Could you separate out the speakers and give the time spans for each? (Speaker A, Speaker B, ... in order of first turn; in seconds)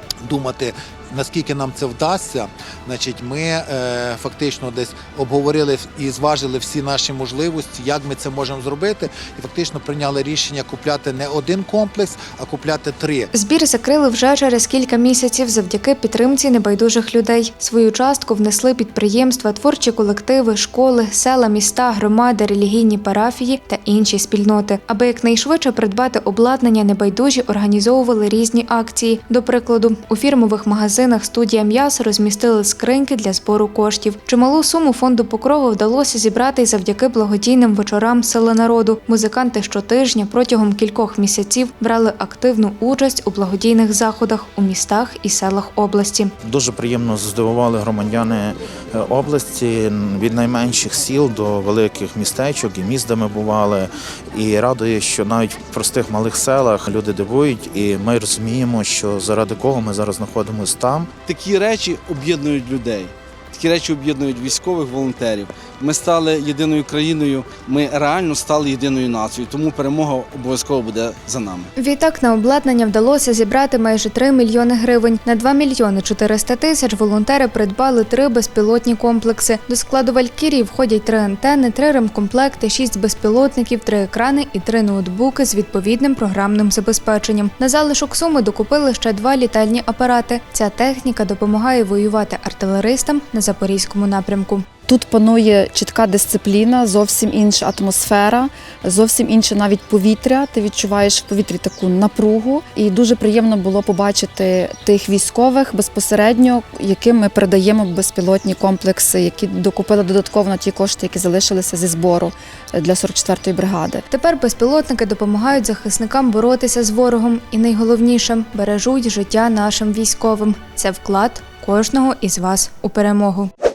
Speaker A: 0.2-13.2
Speaker B: 13.3-46.3, 71.8-94.7, 114.1-123.5
Speaker C: 46.4-61.1
Speaker D: 61.2-71.7
Speaker E: 94.9-114.0